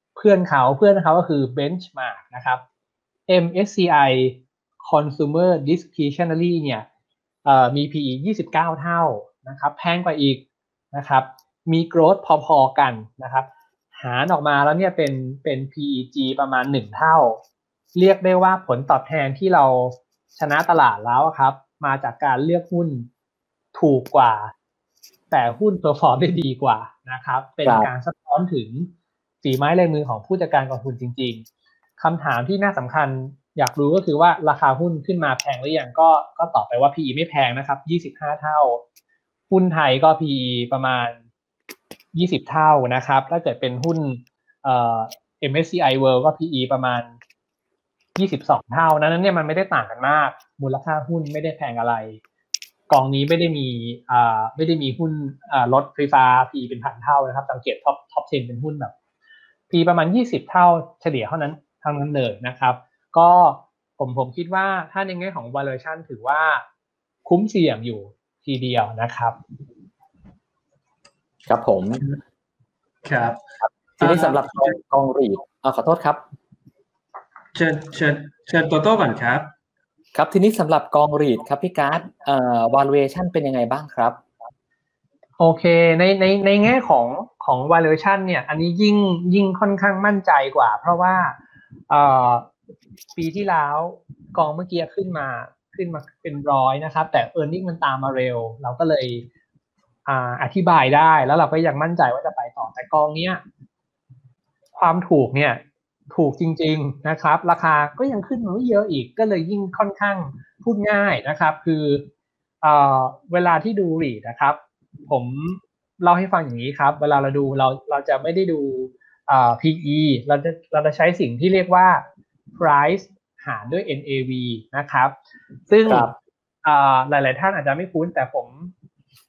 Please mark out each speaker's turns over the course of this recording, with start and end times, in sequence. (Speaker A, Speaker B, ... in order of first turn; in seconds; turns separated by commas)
Speaker A: 0.1-2.6, Speaker A: 3.3-6.8, Speaker A: 7.4-17.4, Speaker A: 17.9-23.1, Speaker A: 23.7-24.5, Speaker A: 25.3-28.9, Speaker B: 27.6-27.9, Speaker A: 29.4-31.4, Speaker A: 32.0-38.8, Speaker A: 39.5-41.2, Speaker A: 42.1-47.1, Speaker A: 48.1-52.2, Speaker A: 52.9-58.9, Speaker A: 59.7-66.6, Speaker A: 67.2-69.4, Speaker B: 71.5-72.1, Speaker C: 73.0-73.4, Speaker C: 74.0-74.7, Speaker B: 74.0-76.2, Speaker C: 77.5-79.5, Speaker B: 80.1-84.2, Speaker A: 85.4-91.4, Speaker A: 91.9-92.5, Speaker A: 93.1-99.2, Speaker A: 100.0-103.4, Speaker A: 104.7-112.0, Speaker A: 112.6-122.0, Speaker A: 122.5-125.1, Speaker A: 125.7-126.1, Speaker B: 125.8-126.1, Speaker A: 126.6-128.7